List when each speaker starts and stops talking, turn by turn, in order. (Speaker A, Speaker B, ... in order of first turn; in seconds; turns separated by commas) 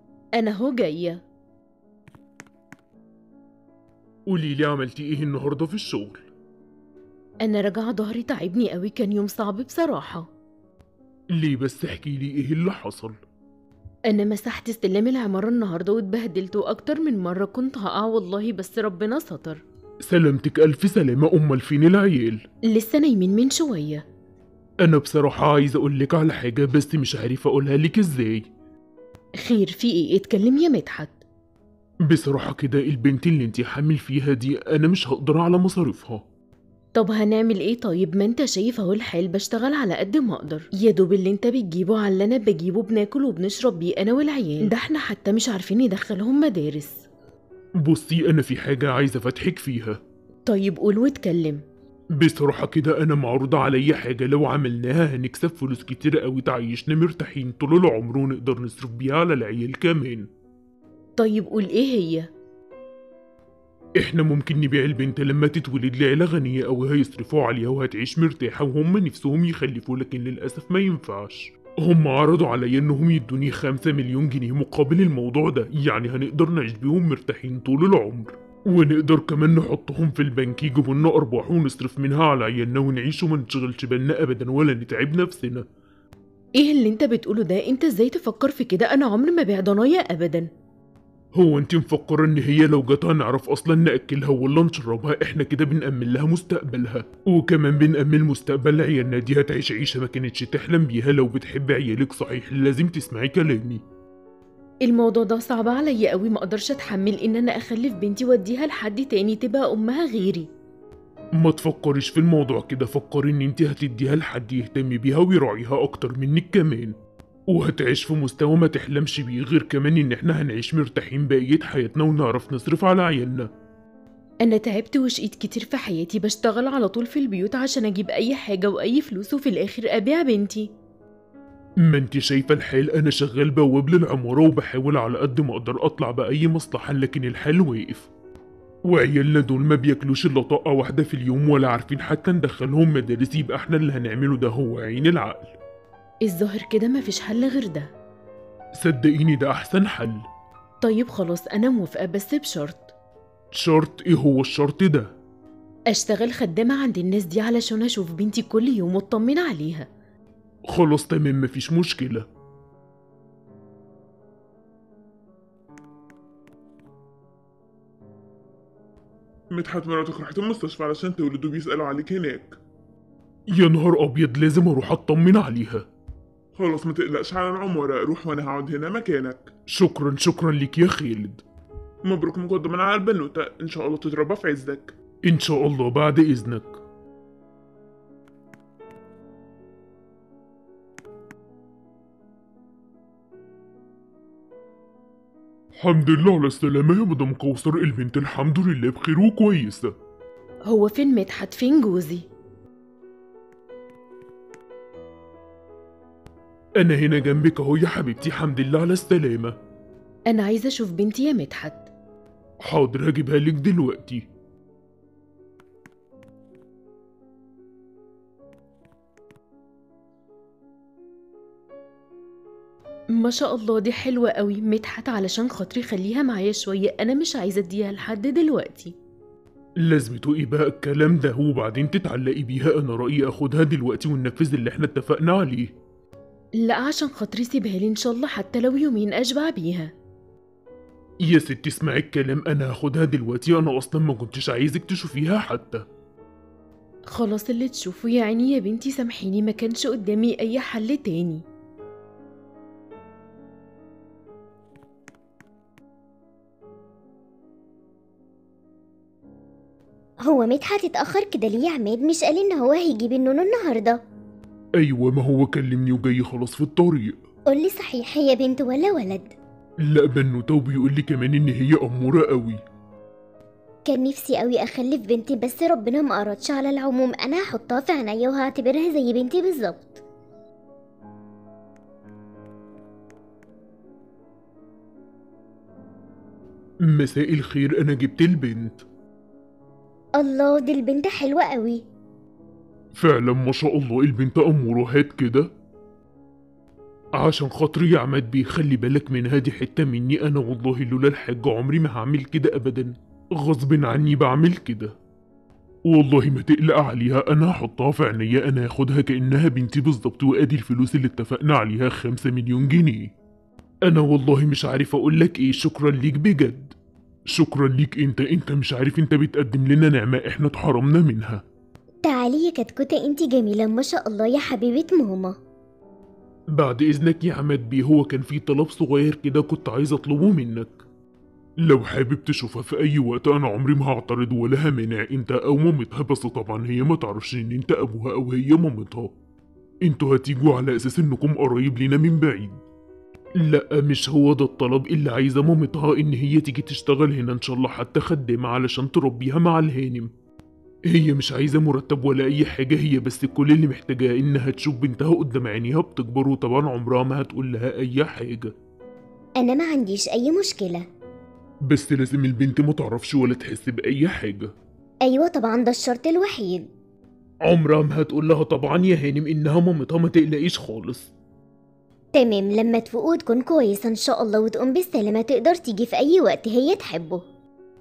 Speaker A: 0.3-1.2, Speaker B: 4.3-6.2, Speaker A: 7.4-10.3, Speaker B: 11.3-13.2, Speaker A: 14.1-19.6, Speaker B: 20.1-22.4, Speaker A: 22.7-24.1, Speaker B: 24.8-28.5, Speaker A: 29.4-31.2, Speaker B: 32.1-36.2, Speaker A: 36.9-47.0, Speaker B: 47.8-50.0, Speaker A: 50.5-51.6, Speaker B: 52.2-60.3, Speaker A: 61.2-62.3, Speaker B: 64.0-85.7, Speaker A: 86.6-90.5, Speaker B: 91.3-103.8, Speaker A: 104.8-110.5, Speaker B: 111.4-117.0, Speaker B: 117.5-123.5, Speaker A: 124.4-130.7, Speaker B: 131.8-138.1, Speaker B: 138.9-145.6, Speaker A: 146.2-147.9, Speaker B: 148.8-150.2, Speaker A: 150.8-152.9, Speaker B: 153.5-155.1, Speaker A: 155.9-159.9, Speaker B: 160.7-162.3, Speaker C: 169.5-172.6, Speaker B: 173.5-175.8, Speaker C: 176.6-179.5, Speaker B: 179.7-181.4, Speaker C: 182.1-184.9, Speaker B: 185.3-186.8, Speaker B: 195.8-199.9, Speaker A: 200.7-202.2, Speaker B: 206.8-209.6, Speaker A: 210.3-211.9, Speaker B: 212.7-214.3, Speaker A: 223.2-228.9, Speaker B: 229.8-235.8, Speaker A: 236.6-239.9, Speaker B: 241.3-245.9, Speaker A: 247.1-251.4, Speaker D: 260.2-264.0, Speaker B: 264.8-267.2, Speaker D: 267.5-269.4, Speaker B: 269.9-272.6, Speaker D: 273.9-280.0, Speaker B: 286.9-288.8, Speaker D: 290.2-291.8, Speaker B: 293.0-295.5, Speaker B: 297.2-304.9, Speaker B: 305.9-313.1, Speaker B: 313.9-316.8, Speaker B: 317.3-321.4, Speaker D: 322.1-325.4, Speaker B: 326.5-330.8, Speaker B: 331.6-339.1, Speaker B: 339.9-342.6, Speaker B: 343.4-350.1, Speaker B: 350.9-358.5, Speaker D: 359.4-360.9, Speaker B: 361.7-364.5, Speaker D: 365.0-366.7, Speaker B: 367.5-371.1, Speaker D: 372.1-377.2